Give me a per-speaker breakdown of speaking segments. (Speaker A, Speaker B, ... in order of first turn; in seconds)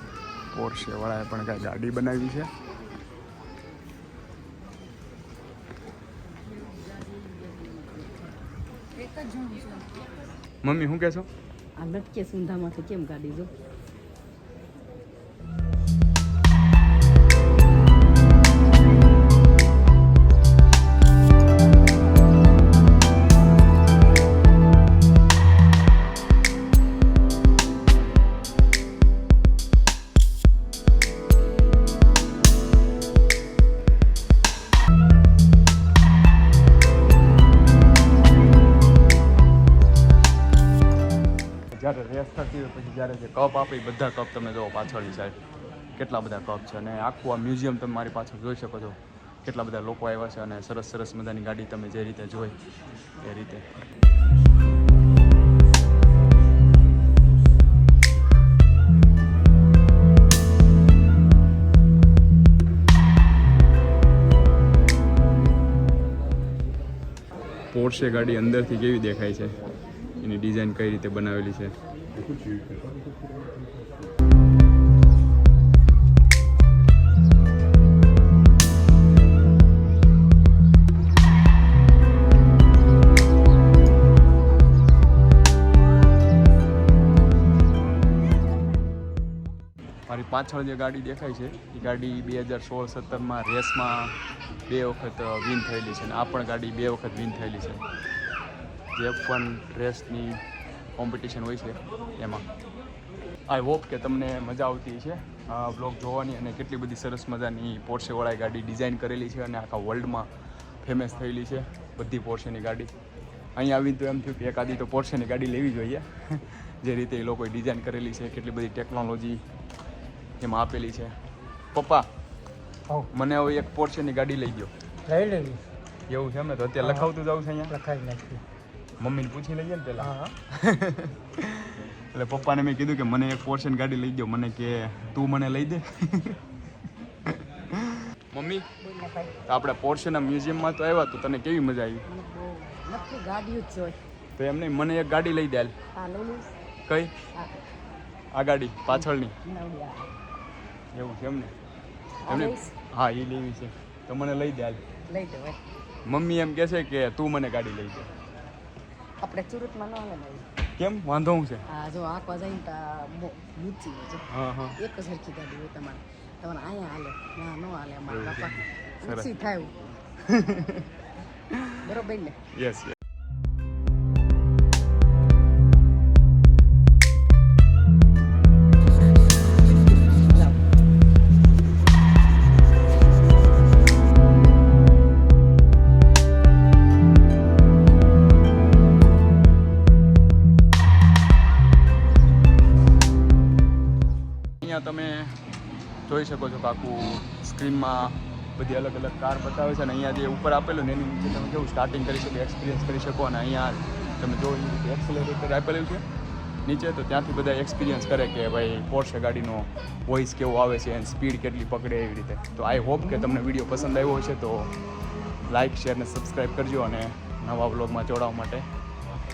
Speaker A: 0.5-2.5, 10.6-11.3, 41.7-45.4, 46.0-52.5, 53.2-53.8, 67.7-69.6, 70.2-71.7, 90.1-97.8, 98.9-100.4, 101.0-102.5, 103.5-110.3, 110.8-112.9, 113.5-119.4, 120.4-121.1, 121.7-122.1, 123.1-124.7, 126.1-127.8, 129.0-136.4, 137.3-138.7, 139.4-142.0, 144.4-145.7, 146.9-147.1, 148.3-149.3, 150.9-151.5, 152.3-154.8, 156.1-158.1, 160.8-161.6, 164.3-164.8, 168.1-169.3, 170.2-170.9, 171.5-171.8, 172.5-173.0, 194.6-195.4, 196.1-206.1, 206.6-214.7, 215.5-218.7
Speaker B: 7.0-7.7, 9.2-9.7, 11.8-13.5, 138.8-139.4, 142.1-144.0, 145.9-146.5, 148.9-150.1, 152.2-152.7, 155.1-155.6, 159.2-160.4, 161.7-169.9, 171.8-172.4
Speaker C: 72.3-73.1, 125.1-125.6, 127.7-128.4